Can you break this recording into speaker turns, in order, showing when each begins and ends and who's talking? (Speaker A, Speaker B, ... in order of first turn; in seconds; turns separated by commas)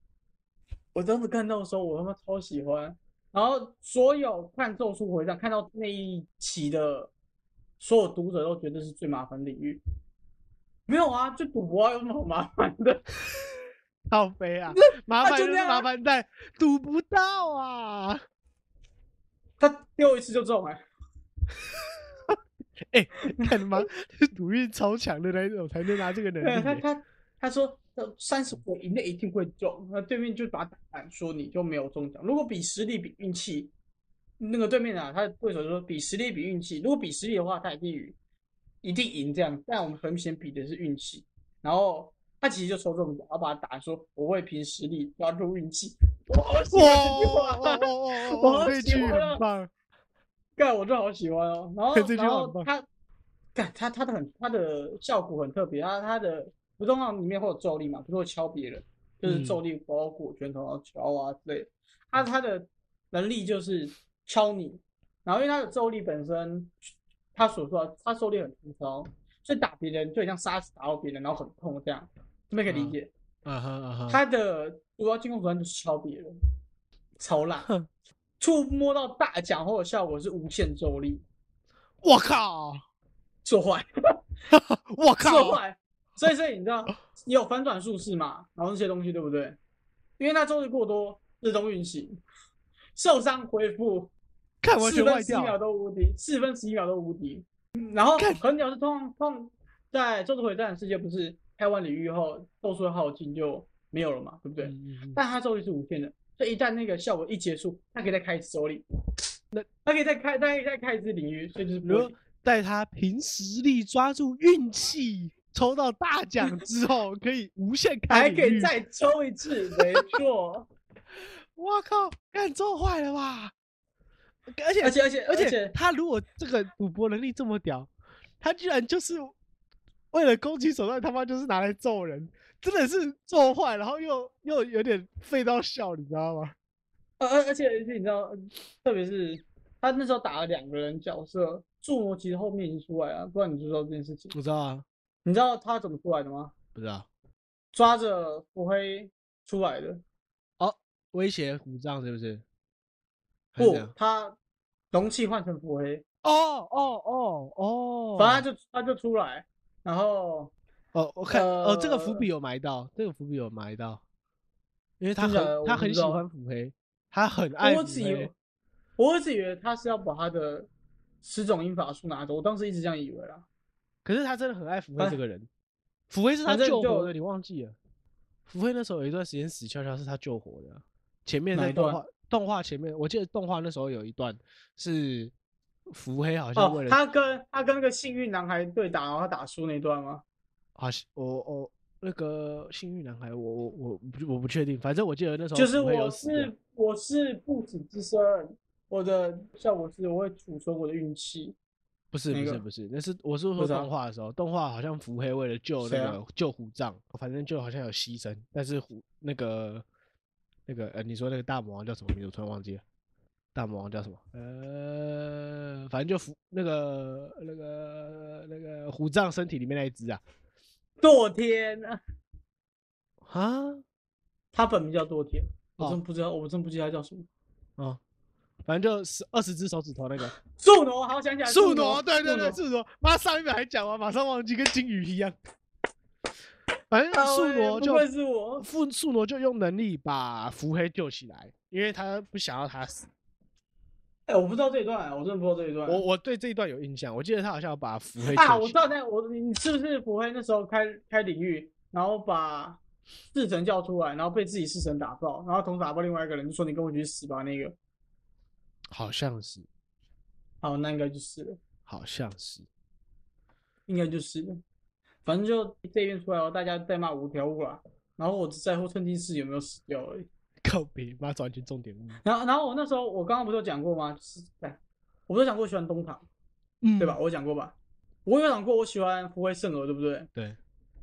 Speaker A: 0.9-7.1, Speaker A: 7.8-9.8, Speaker A: 10.9-13.0, Speaker B: 14.1-18.2, Speaker A: 14.7-15.9, Speaker A: 19.6-20.8, Speaker B: 21.6-22.4, Speaker B: 22.9-26.8, Speaker A: 23.4-23.9, Speaker A: 26.4-33.7, Speaker A: 34.4-38.1, Speaker A: 38.8-49.4, Speaker B: 46.7-49.7, Speaker A: 50.6-52.8, Speaker B: 51.9-52.7, Speaker A: 53.5-66.7, Speaker B: 59.2-59.6, Speaker A: 67.3-73.1, Speaker B: 72.7-74.2, Speaker A: 74.1-76.3, Speaker A: 77.2-77.7, Speaker A: 78.4-81.2, Speaker B: 82.0-82.8, Speaker A: 83.4-83.9, Speaker B: 84.5-85.6, Speaker A: 85.2-89.6, Speaker A: 90.2-92.2, Speaker A: 92.9-94.1, Speaker B: 94.6-95.6, Speaker A: 94.8-108.8, Speaker B: 98.2-98.4, Speaker B: 104.6-105.2, Speaker A: 109.8-112.2, Speaker B: 111.8-118.7, Speaker A: 118.1-120.7, Speaker B: 121.5-123.5, Speaker B: 124.5-127.9, Speaker A: 124.8-125.7, Speaker B: 128.4-129.3, Speaker B: 130.1-136.5, Speaker A: 137.2-144.3, Speaker B: 144.3-144.8, Speaker A: 145.2-146.5, Speaker B: 146.7-147.1, Speaker A: 147.7-150.0, Speaker B: 150.6-152.4, Speaker B: 153.5-153.9, Speaker A: 153.6-154.3, Speaker A: 154.9-156.0, Speaker B: 156.2-158.4, Speaker A: 158.2-160.5, Speaker B: 160.9-164.0, Speaker A: 161.3-162.2, Speaker B: 165.0-168.3, Speaker A: 165.2-166.2, Speaker A: 167.6-168.3, Speaker A: 169.0-170.7, Speaker A: 171.2-173.4, Speaker B: 174.0-175.5, Speaker B: 176.1-177.8, Speaker A: 176.4-177.1, Speaker B: 178.5-185.3, Speaker A: 181.5-182.0, Speaker B: 185.9-187.0, Speaker A: 186.5-190.2, Speaker B: 190.8-196.5, Speaker A: 195.5-201.6, Speaker B: 202.1-209.8, Speaker A: 202.3-202.6, Speaker A: 203.6-203.9, Speaker A: 205.8-206.2, Speaker B: 210.7-212.8, Speaker B: 213.5-220.2, Speaker A: 221.0-222.0, Speaker B: 223.2-223.8, Speaker A: 224.5-227.3, Speaker B: 228.6-230.3, Speaker A: 230.5-232.6, Speaker B: 231.4-235.3, Speaker B: 236.9-238.1, Speaker A: 237.1-238.7, Speaker B: 238.6-243.1, Speaker A: 244.3-246.0, Speaker B: 245.9-248.8, Speaker A: 248.3-252.8, Speaker A: 253.3-257.8, Speaker B: 258.9-259.7, Speaker A: 260.6-261.6, Speaker B: 261.9-262.7, Speaker A: 263.9-264.6, Speaker A: 265.2-270.3, Speaker B: 270.6-272.2, Speaker A: 272.2-276.2, Speaker B: 276.8-277.2, Speaker A: 277.0-277.7, Speaker A: 278.2-280.3